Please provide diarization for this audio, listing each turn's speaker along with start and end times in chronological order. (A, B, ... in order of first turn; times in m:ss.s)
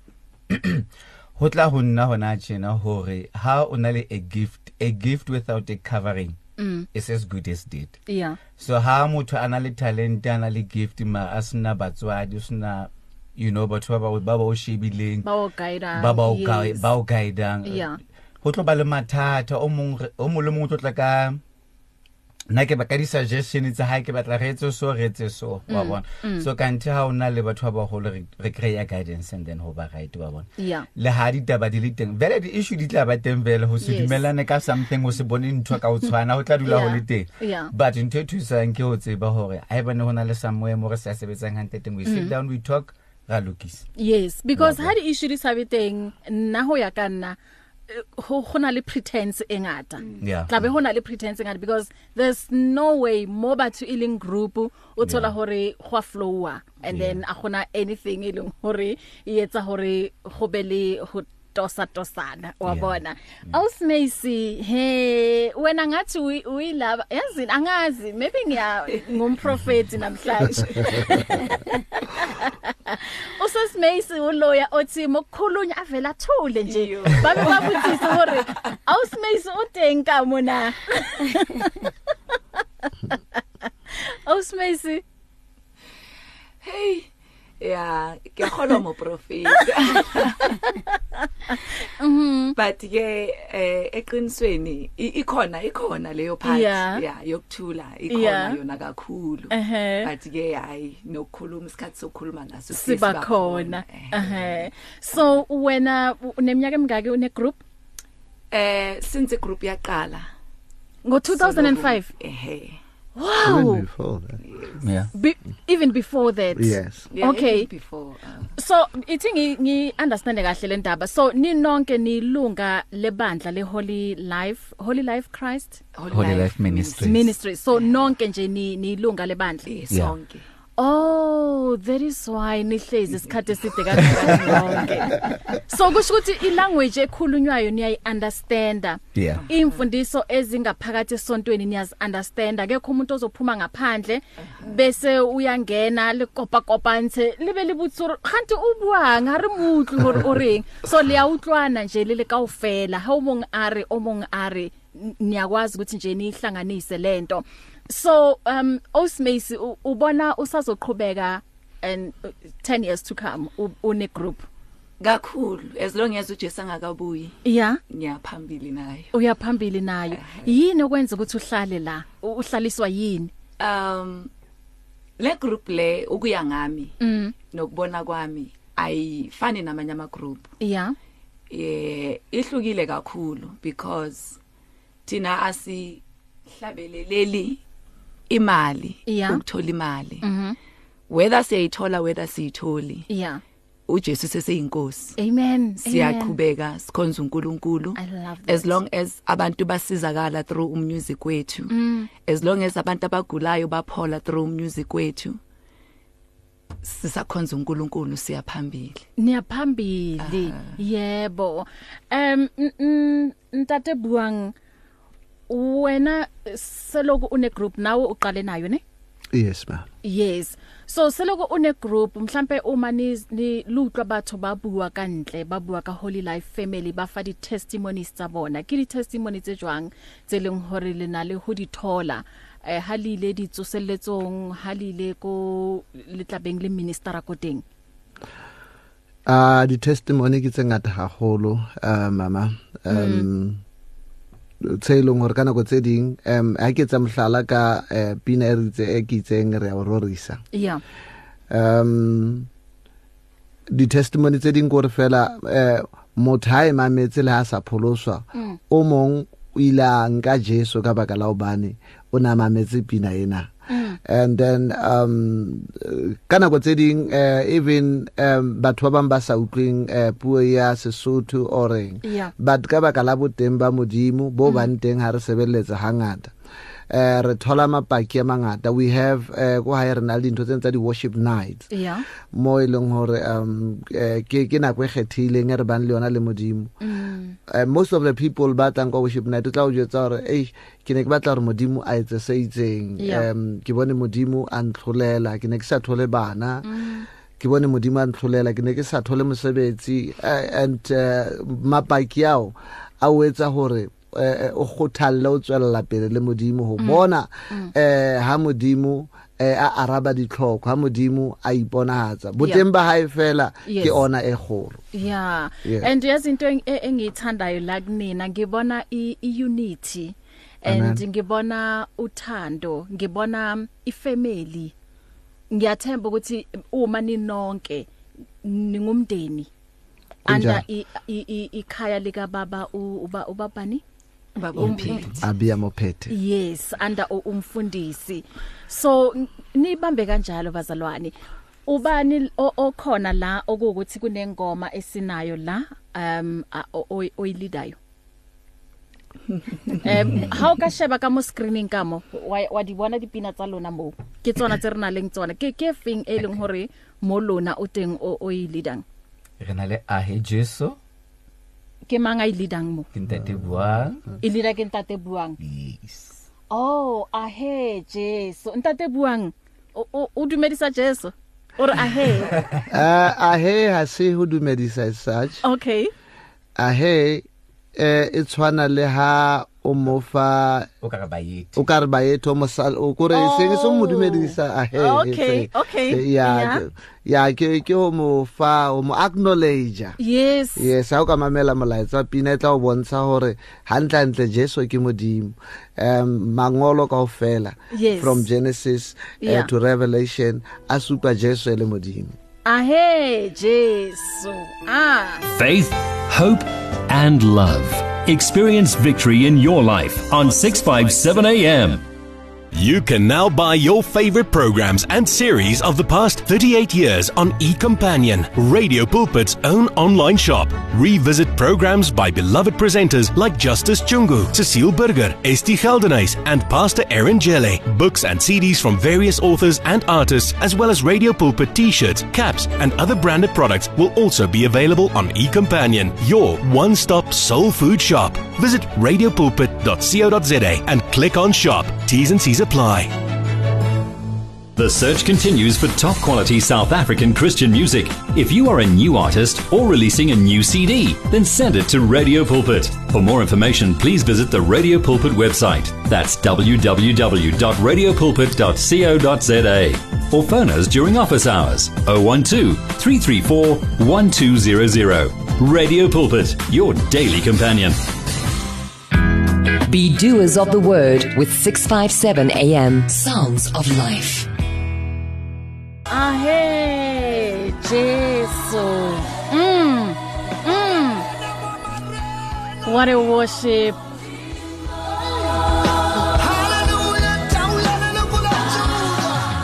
0:00.5-0:06.4 A
0:06.6-0:06.9 B
0:06.9-0:08.0 A
0:08.1-0:08.4 B
0:08.5-0:15.3 A
0:15.2-0:16.9 B
0:16.0-0:17.9 A
0:17.6-0:18.0 B
0:18.4-0:21.4 A
0:22.5-0:43.9 A
0:25.7-0:26.5 B
0:30.6-0:30.9 B
0:33.8-0:34.3 B
0:36.6-0:37.7 B
0:42.0-0:42.3 B
0:44.0-0:47.4 B
0:44.6-0:44.9 A
0:47.9-1:21.9 B
0:50.2-0:50.6 A
0:55.0-0:55.3 A
0:56.8-0:57.2 A
1:02.7-1:03.0 A
1:16.7-1:18.7 C
1:23.1-1:23.4 B
1:23.9-1:25.0 B
1:26.6-1:27.1 C
1:27.6-1:30.7 C
1:31.5-1:32.6 B
1:32.6-1:44.7 C
1:36.4-1:37.0 B
1:38.1-1:38.6 B
1:39.5-1:40.1 B
1:42.7-1:47.6 B
1:48.5-1:50.3 C
1:51.0-1:52.1 B
1:51.3-1:52.8 C
1:53.2-1:53.8 B
1:53.4-1:54.4 D
1:54.5-1:54.7 C
1:54.8-1:55.1 A
1:55.1-1:57.7 B
1:56.5-1:57.0 D
1:57.1-1:58.5 C
1:58.6-2:05.8 B
2:06.0-2:07.9 C
2:06.1-2:07.2 A
2:07.0-2:09.7 B
2:09.7-2:10.4 C
2:09.9-2:10.2 A
2:10.8-2:44.5 B
2:14.0-2:14.7 C
2:19.2-2:19.4 A
2:45.0-2:49.1 C
2:47.4-2:47.8 B
2:49.1-2:53.3 B
2:50.1-2:50.5 C
2:53.6-2:54.3 C
2:55.2-2:57.0 C
2:57.0-2:57.3 B
2:57.5-3:00.5 C
3:00.6-3:01.0 B
3:01.5-3:04.4 C
3:05.1-3:07.6 C
3:08.3-3:10.3 C
3:09.1-3:09.4 B
3:10.2-3:10.6 B
3:11.1-3:13.1 C
3:13.1-3:13.4 B
3:13.9-3:15.2 C
3:15.2-3:16.4 B
3:15.8-3:25.4 C
3:18.0-3:18.8 B
3:21.7-3:22.1 B
3:26.8-3:29.0 C
3:29.2-3:34.5 B
3:30.2-3:30.7 C
3:35.5-3:38.8 B
3:39.3-3:39.9 D
3:40.0-3:57.6 B
3:59.3-4:03.6 D
4:02.9-4:03.3 B
4:04.6-4:10.4 D
4:10.5-4:10.8 B
4:11.5-4:12.5 D
4:13.7-4:23.5 D
4:23.7-4:24.0 B
4:24.0-4:36.3 D
4:32.0-4:32.3 B
4:34.4-4:34.7 B
4:36.9-4:41.7 D
4:41.7-4:42.0 B
4:42.3-4:46.7 D
4:46.8-4:47.4 B
4:47.5-4:56.7 D
4:53.0-4:53.3 B
4:56.6-4:57.1 B
4:57.4-5:14.8 D
5:06.8-5:07.7 B
5:13.7-5:14.0 B
5:14.9-5:24.7 B
5:15.6-5:15.9 D
5:20.6-5:21.0 D
5:25.5-5:27.9 B
5:28.4-5:29.5 B
5:30.3-5:30.6 D
5:30.3-5:33.8 B
5:34.4-5:35.2 C
5:34.6-5:35.1 B
5:34.7-5:36.1 D
5:36.1-5:41.1 B
5:41.7-5:47.8 B
5:49.8-5:58.8 B
5:59.4-6:00.8 A
6:01.9-6:02.9 B
6:02.9-6:04.1 A
6:04.2-6:05.4 B
6:05.4-6:06.2 A
6:06.5-6:12.4 B
6:12.7-6:15.4 D
6:15.4-6:15.9 B
6:16.6-6:20.7 D
6:20.8-6:21.6 A
6:21.6-6:30.0 D
6:23.1-6:26.6 B
6:30.0-6:30.7 B
6:30.6-6:42.2 D
6:37.7-6:38.2 B
6:39.2-6:39.5 B
6:42.5-6:45.2 B
6:45.3-6:51.8 E
6:52.5-7:22.9 F
7:24.6-7:47.8 E
7:49.6-7:54.3 G
7:55.9-8:01.1 B
8:02.6-8:03.8 B
8:06.0-8:09.3 D